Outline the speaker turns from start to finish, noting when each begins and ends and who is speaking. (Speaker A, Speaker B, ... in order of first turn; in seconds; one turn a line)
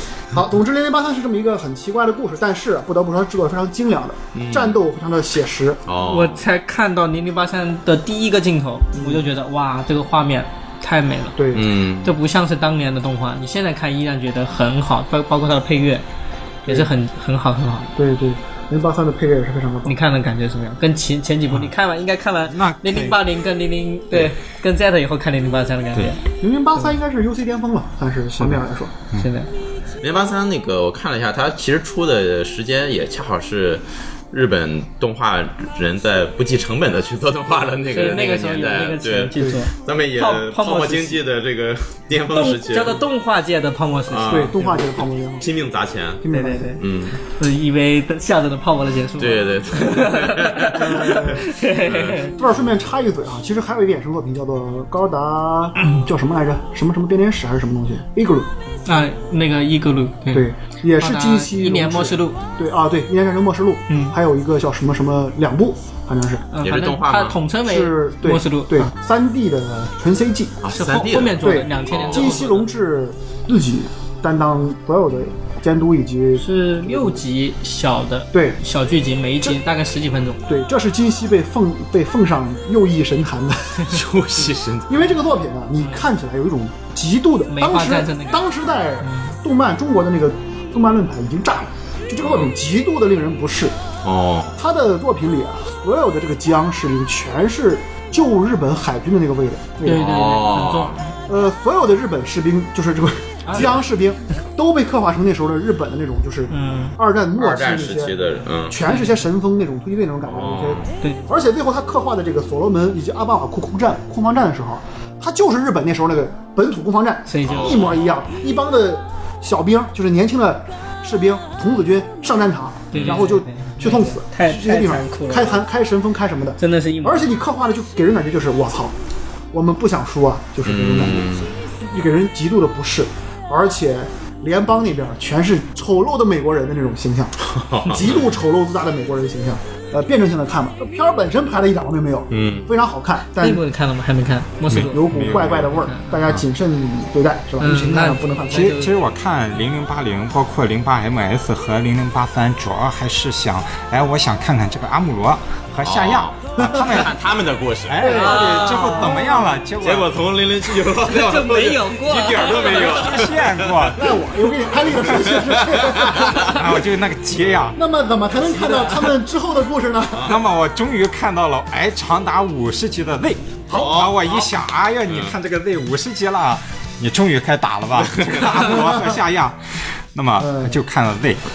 Speaker A: 0.3-5.8
Speaker B: 4.3-4.8
Speaker B: 5.9-6.5
Speaker C: 6.0-11.4
Speaker A: 8.9-9.2
Speaker A: 11.4-11.7
Speaker B: 11.5-12.2
Speaker C: 12.0-16.0
Speaker C: 16.7-17.9
Speaker A: 18.0-20.0
Speaker C: 19.9-26.2
Speaker D: 22.5-23.2
Speaker A: 26.4-28.9
Speaker D: 28.4-29.3
Speaker C: 29.1-29.5
Speaker B: 30.0-43.0
Speaker C: 37.9-41.2
Speaker A: 39.4-39.6
Speaker C: 42.3-44.8
Speaker B: 44.1-46.2
Speaker A: 44.3-45.5
Speaker A: 46.2-46.8
Speaker C: 46.3-52.4
Speaker B: 46.8-47.2
Speaker B: 49.2-52.2
Speaker A: 50.8-51.4
Speaker A: 52.3-58.5
Speaker C: 58.9-62.4
Speaker A: 60.3-66.5
Speaker C: 63.9-64.2
Speaker C: 66.5-68.9
Speaker B: 66.6-67.4
Speaker A: 67.6-70.6
Speaker B: 70.6-72.4
Speaker C: 70.7-72.7
Speaker A: 71.4-77.2
Speaker C: 76.4-80.4
Speaker A: 78.3-78.6
Speaker A: 80.5-83.9
Speaker B: 83.8-85.2
Speaker A: 84.9-93.8
Speaker C: 87.5-88.5
Speaker C: 89.0-89.3
Speaker B: 92.2-92.5
Speaker B: 94.0-94.6
Speaker A: 94.6-100.0
Speaker C: 99.8-101.2
Speaker B: 99.9-101.0
Speaker A: 101.3-108.2
Speaker C: 103.5-103.8
Speaker C: 106.5-107.0
Speaker B: 107.4-108.8
Speaker A: 108.7-128.9
Speaker C: 108.8-109.3
Speaker B: 110.2-110.9
Speaker C: 111.0-111.3
Speaker C: 117.3-118.0
Speaker B: 117.5-118.1
Speaker C: 122.9-125.6
Speaker B: 122.9-123.2
Speaker C: 126.6-127.3
Speaker A: 129.5-143.6
Speaker B: 130.6-131.6
Speaker B: 137.5-138.4
Speaker B: 142.3-142.7
Speaker C: 143.4-146.2
Speaker D: 144.7-145.7
Speaker A: 144.7-148.7
Speaker C: 147.6-148.9
Speaker D: 148.5-157.2
Speaker B: 155.8-159.3
Speaker A: 156.6-157.0
Speaker D: 157.9-160.2
Speaker A: 158.0-158.5
Speaker C: 158.0-159.5
Speaker B: 159.8-164.0
Speaker C: 161.0-163.2
Speaker D: 162.4-164.2
Speaker A: 163.9-166.7
Speaker B: 164.6-166.7
Speaker D: 166.2-167.8
Speaker A: 167.8-170.4
Speaker C: 168.4-169.2
Speaker B: 170.1-170.4
Speaker D: 170.2-181.4
Speaker B: 173.7-174.6
Speaker B: 175.1-175.3
Speaker B: 178.0-178.8
Speaker A: 180.4-180.8